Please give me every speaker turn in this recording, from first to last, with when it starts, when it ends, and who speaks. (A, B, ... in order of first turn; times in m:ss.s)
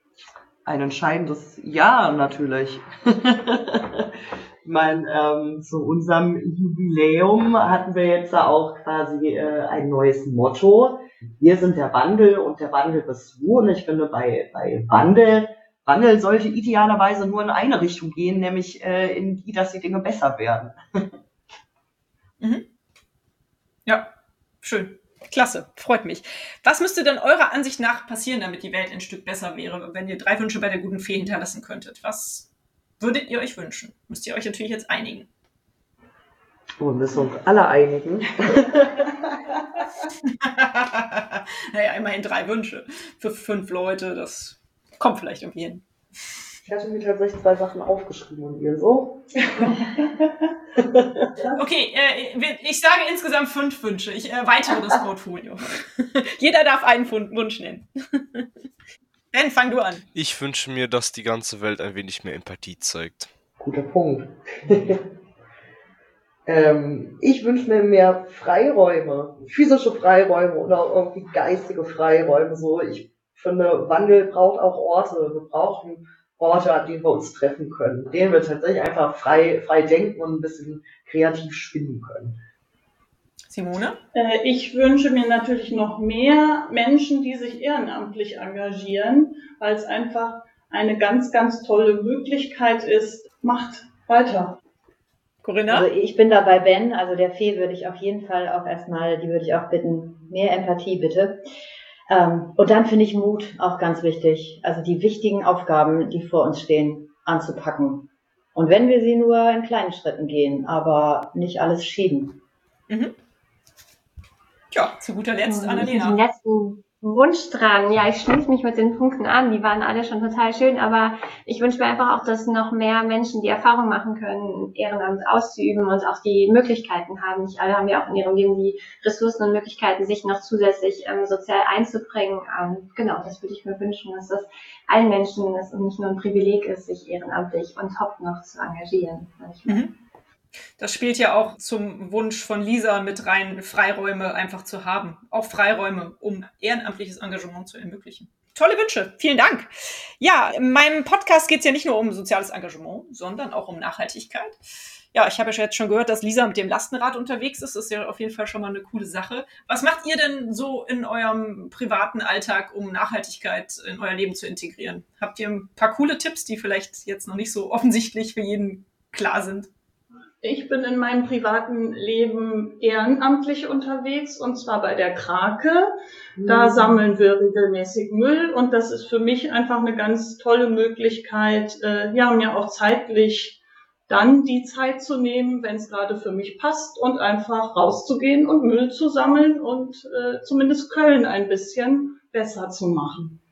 0:00.6-0:04.1 A
0:04.6-0:20.8 A
0:22.4-0:22.7 B
0:23.9-0:32.5 B
0:33.0-0:35.3 B
0:36.8-0:39.3 A
0:40.3-0:45.8 B
0:46.6-0:49.8 A
0:50.8-0:51.3 A
0:51.5-0:58.5 B
0:59.3-1:00.0 B
1:00.1-1:03.3 C
1:03.6-1:05.0 A
1:06.5-1:22.4 A
1:23.5-1:24.0 B
1:24.1-1:34.6 D
1:35.4-1:35.9 B
1:35.7-1:41.4 E
1:42.1-1:52.4 E
1:52.9-1:53.2 B
1:54.7-1:56.2 B
1:55.5-2:19.9 F
2:20.8-2:34.6 B
2:35.1-2:49.7 B
2:50.4-2:55.9 D
2:56.4-2:57.0 A
2:56.4-3:13.4 D